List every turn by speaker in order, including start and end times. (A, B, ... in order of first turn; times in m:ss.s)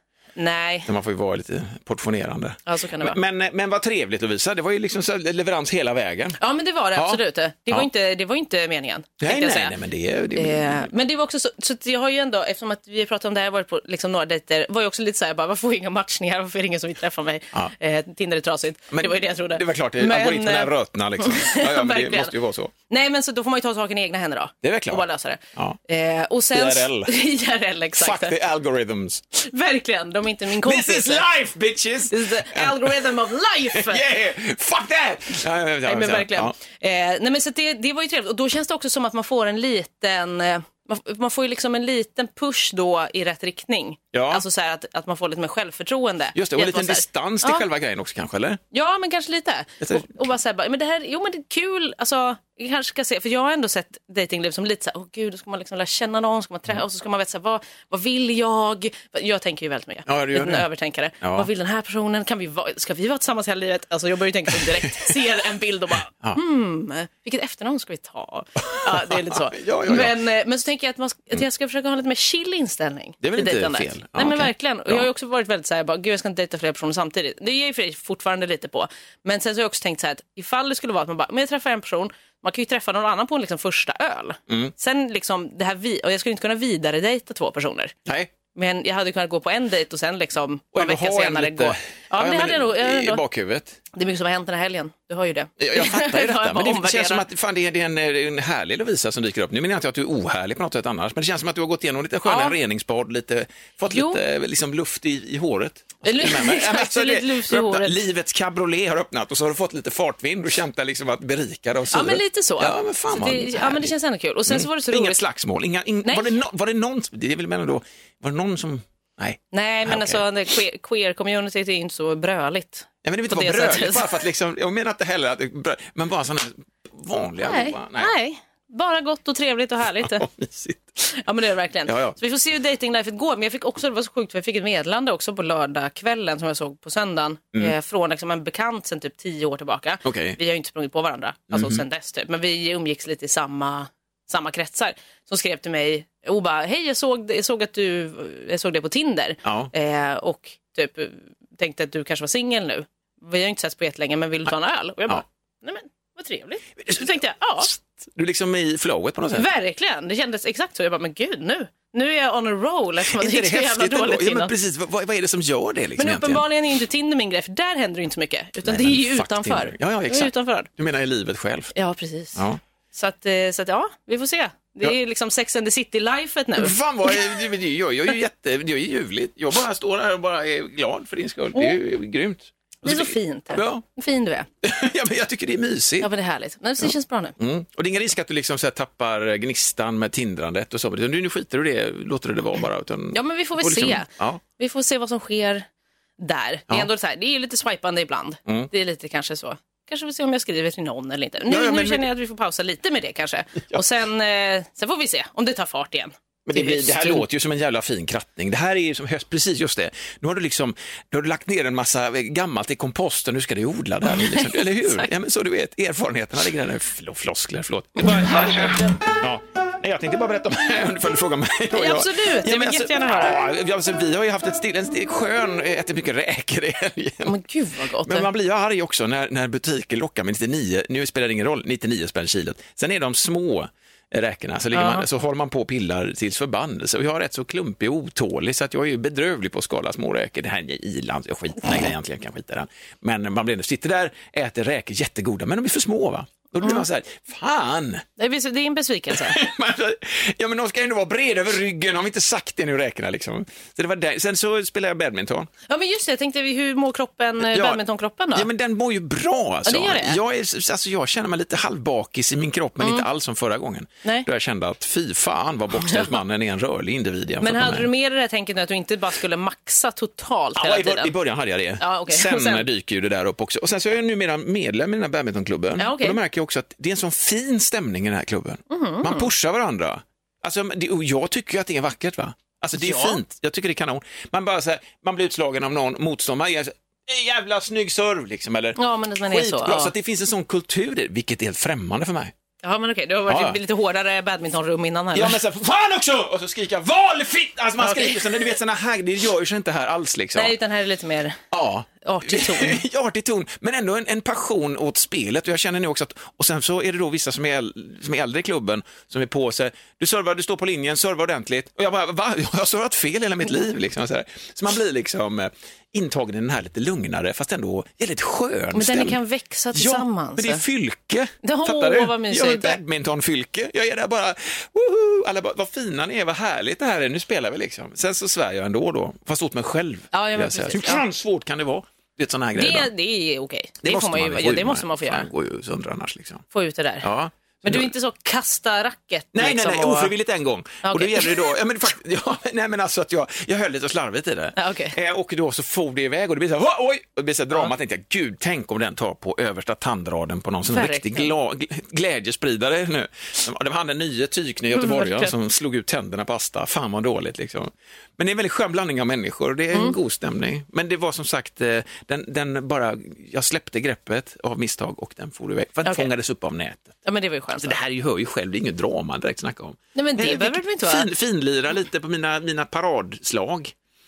0:00.4-0:00.9 A
0:00.9-0:06.4 B
0:02.6-0:03.2 A
0:06.4-0:09.7 A
0:06.9-0:07.2 B
0:09.2-0:10.9 B
0:10.4-0:22.3 A
0:18.9-0:22.7 B
0:22.9-0:28.3 A
0:24.6-0:25.0 B
0:26.5-0:27.1 B
0:28.0-0:29.2 B
0:29.3-0:31.3 A
0:30.6-0:33.1 B
0:32.1-0:34.0 A
0:33.7-0:36.5 B
0:35.8-0:47.6 A
0:44.1-0:44.4 B
0:46.3-0:48.6 B
0:48.7-1:27.9 A
0:49.8-0:50.2 B
1:00.1-1:00.6 B
1:01.2-1:01.5 B
1:08.6-1:10.2 B
1:13.2-1:15.1 B
1:24.5-1:24.7 B
1:28.5-1:33.2 A
1:30.7-1:33.8 B
1:33.9-1:37.2 A
1:35.6-1:53.9 B
1:42.2-1:42.6 A
1:43.9-1:44.2 A
1:46.0-1:48.0 A
1:51.9-1:55.2 A
1:54.5-2:00.2 B
1:56.0-1:56.3 A
1:59.5-2:04.2 A
2:03.0-2:08.1 B
2:07.4-2:10.2 A
2:10.0-2:10.8 B
2:11.0-2:37.7 A
2:11.9-2:12.2 B
2:20.0-2:20.4 B
2:21.5-2:21.8 B
2:29.4-2:29.7 B
2:37.6-2:39.5 B
2:39.3-2:44.5 A
2:43.1-2:46.4 B
2:46.0-2:50.7 A
2:48.6-2:51.7 B
2:51.7-2:57.2 A
2:56.6-3:03.8 B
3:02.8-3:04.5 A
3:04.6-3:06.1 B
3:06.0-3:07.4 A
3:07.4-3:14.4 B
3:13.1-3:15.7 A
3:16.2-3:27.2 A
3:21.5-3:22.0 B
3:26.4-3:47.4 B
3:34.0-3:35.1 A
3:38.2-3:38.9 A
3:41.7-3:43.4 A
3:47.2-3:48.3 A
3:48.0-4:08.0 B
3:54.7-3:55.0 A
4:08.2-4:09.4 A
4:09.2-4:15.5 B
4:15.7-4:18.5 A
4:17.4-4:17.8 B
4:18.3-4:27.9 B
4:19.6-4:20.2 A
4:22.8-4:23.0 A
4:25.8-4:26.1 A
4:27.4-4:31.1 A
4:30.6-4:52.3 B
4:31.8-4:32.6 A
4:35.8-4:36.2 A
4:38.7-4:39.3 A
4:42.8-4:43.2 A
4:48.8-4:49.9 A
4:52.6-4:55.4 A
4:53.3-4:53.6 B
4:55.1-5:00.5 B
4:57.8-4:58.4 A
5:00.3-5:01.4 A
5:01.5-5:19.2 B
5:02.0-5:02.8 A
5:18.7-5:20.6 A
5:19.7-5:32.9 B
5:21.4-5:22.8 A
5:30.1-5:31.0 A
5:32.6-5:35.3 A
5:33.8-5:36.4 B
5:36.5-5:37.1 A
5:37.0-5:37.9 B
5:37.6-5:40.1 A
5:39.3-6:07.0 B
5:40.8-5:41.4 A
5:44.6-5:44.9 A
5:50.7-5:51.3 A
5:54.7-5:55.3 A
5:59.7-6:00.0 A
6:05.8-6:06.1 A
6:07.0-6:07.8 A
6:07.6-6:13.7 B
6:09.9-6:11.1 A